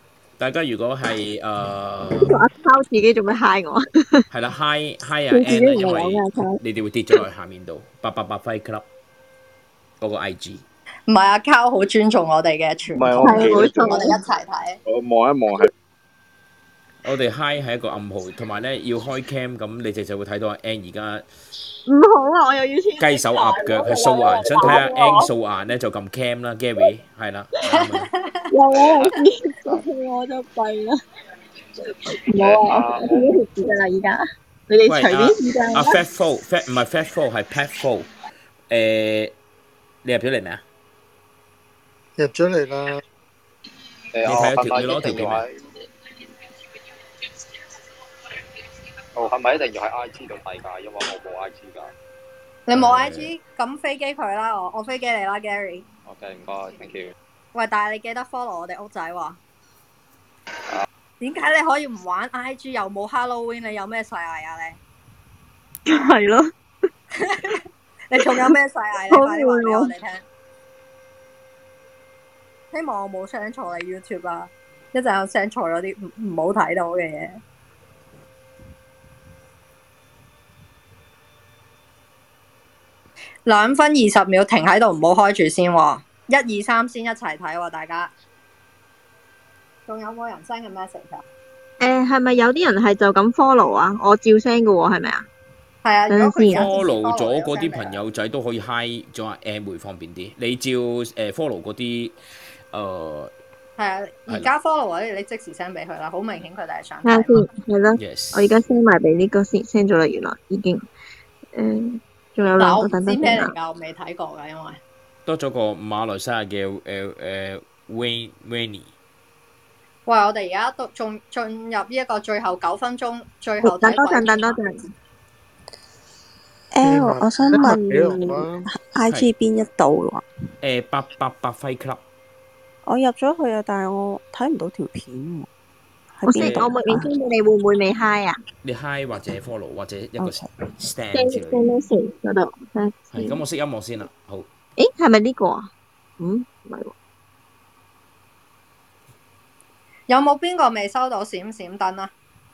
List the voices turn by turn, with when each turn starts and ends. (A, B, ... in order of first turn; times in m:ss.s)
0:00.4-0:02.4 A
0:02.1-0:04.2 B
0:04.3-0:08.8 A
0:05.3-0:06.6 B
0:10.0-0:10.6 A
0:11.1-0:14.8 C
0:13.0-0:14.1 D
0:13.2-0:14.2 B
0:14.9-0:15.7 D
0:17.0-0:21.3 A
0:21.9-0:25.3 B
0:23.0-0:28.1 A
0:27.7-0:28.5 C
0:28.5-0:31.0 B
0:28.8-0:29.1 E
0:32.1-0:36.0 B
0:32.4-0:33.3 E
0:34.9-0:38.1 A
0:38.7-0:39.3 A
0:40.0-0:40.6 A
0:42.2-0:43.0 F
0:44.1-0:45.6 E
0:44.2-0:45.4 A
0:49.2-0:51.9 E
0:52.7-0:55.9 C
0:52.7-0:53.3 A
0:56.1-0:57.1 E
0:57.5-0:59.4 C
1:01.2-1:04.8 C
1:05.9-1:06.5 B
1:07.2-1:07.6 C
1:08.1-1:10.2 C
1:08.3-1:08.5 B
1:09.1-1:09.9 B
1:12.7-1:17.4 C
1:23.5-1:28.1 C
1:29.9-1:31.2 C
1:31.8-1:35.2 B
1:35.8-1:38.0 C
1:36.1-1:36.7 B
1:36.4-1:42.2 A
1:42.7-1:43.3 A
1:43.8-1:47.5 C
1:47.0-1:50.8 B
1:48.0-1:48.6 A
1:51.6-1:53.5 B
1:52.6-1:54.8 C
1:55.2-1:58.9 A
2:00.1-2:04.6 C
2:03.6-2:04.8 B
2:06.7-2:10.2 G
2:06.8-2:08.7 F
2:10.6-2:12.0 A
2:12.8-2:15.5 G
2:16.2-2:17.1 G
2:16.3-2:18.4 B
2:16.4-2:16.7 A
2:18.6-2:21.6 A
2:20.2-2:20.5 G
2:21.1-2:23.4 B
2:23.1-2:24.5 A
2:24.8-2:26.9 B
2:30.1-2:32.1 C